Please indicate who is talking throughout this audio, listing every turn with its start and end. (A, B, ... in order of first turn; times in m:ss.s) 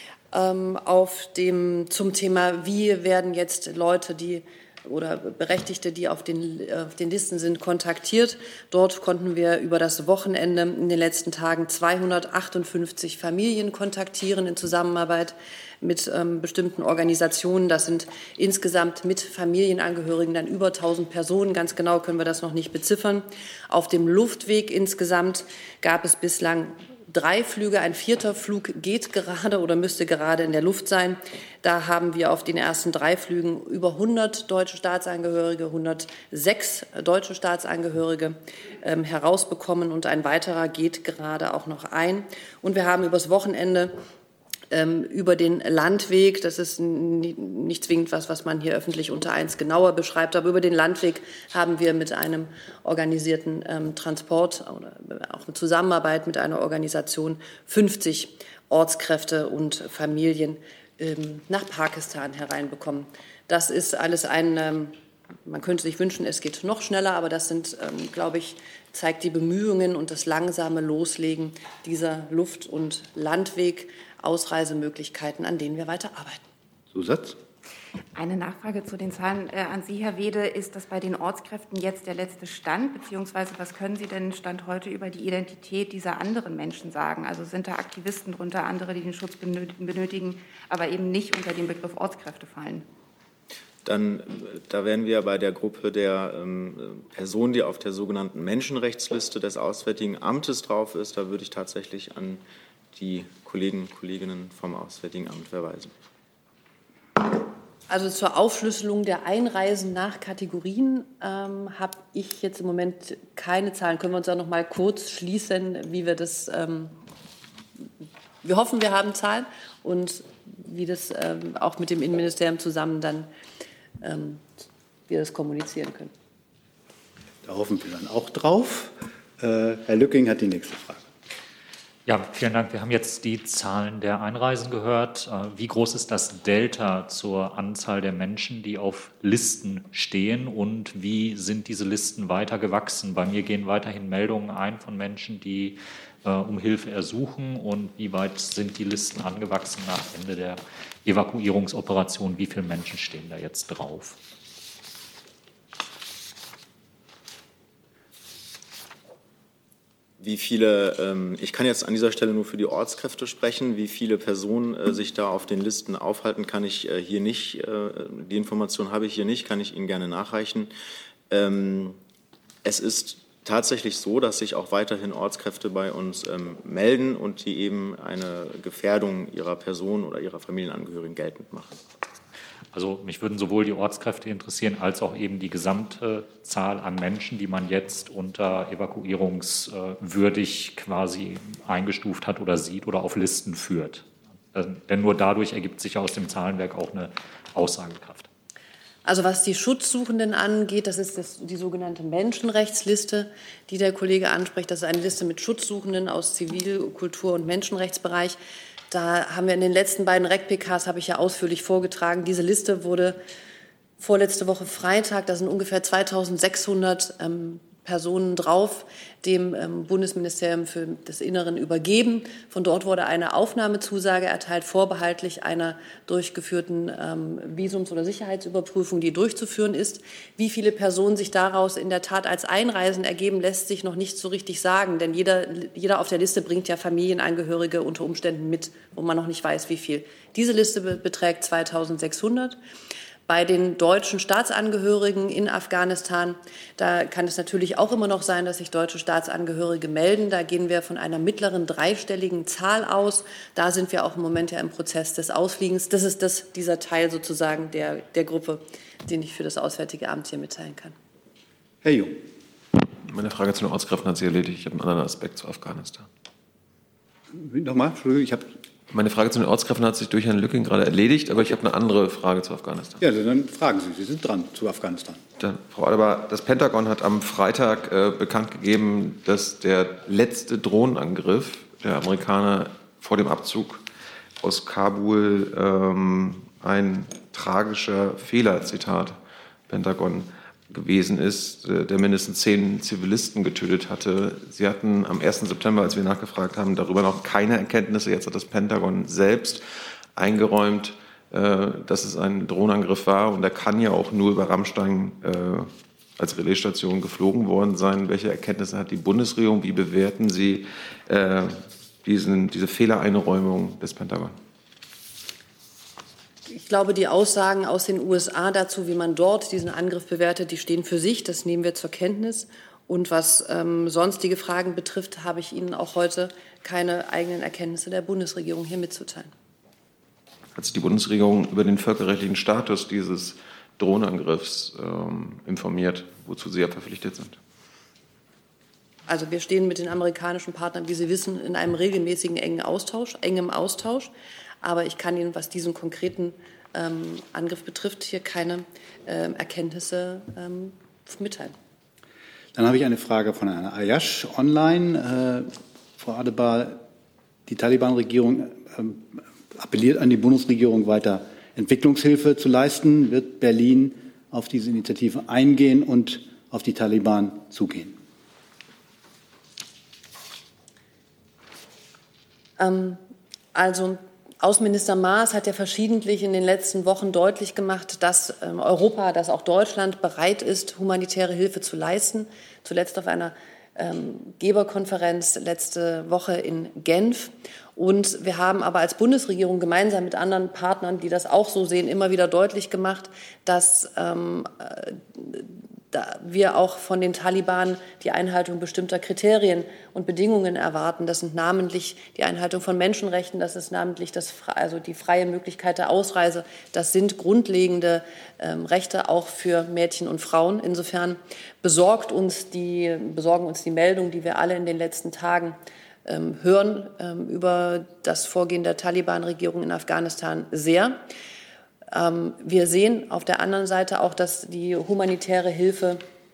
0:00.3-0:43.9 A
0:44.7-1:04.9 A
1:05.5-1:16.4 A
1:16.9-1:17.4 B
1:18.2-1:32.9 C
1:33.8-1:42.4 D
1:42.9-1:45.9 D
1:47.9-1:56.9 A
1:58.4-2:03.3 A
2:04.0-2:04.5 A
2:05.1-2:06.1 A
2:07.4-2:11.1 B
2:12.1-2:34.2 E
2:40.2-2:50.7 D
2:51.3-2:52.0 D
2:52.6-3:01.8 D
3:02.7-3:18.3 E
3:19.0-3:28.4 A
3:28.9-3:33.2 A
3:34.0-4:02.6 A
4:03.3-4:21.0 A
4:21.8-4:22.2 B
4:23.0-4:26.1 F
4:27.3-4:28.5 B
4:28.9-4:33.0 F
4:33.0-4:35.2 B
4:35.4-4:43.8 F
4:44.4-4:49.2 F
4:49.7-4:59.6 F
5:00.2-5:14.4 F
5:16.5-5:29.3 A
5:30.5-5:37.4 F
5:39.1-5:51.6 A
5:52.6-5:56.8 B
5:57.5-6:08.0 B
6:12.6-6:13.0 A
6:13.5-7:01.0 A
7:01.9-7:06.0 A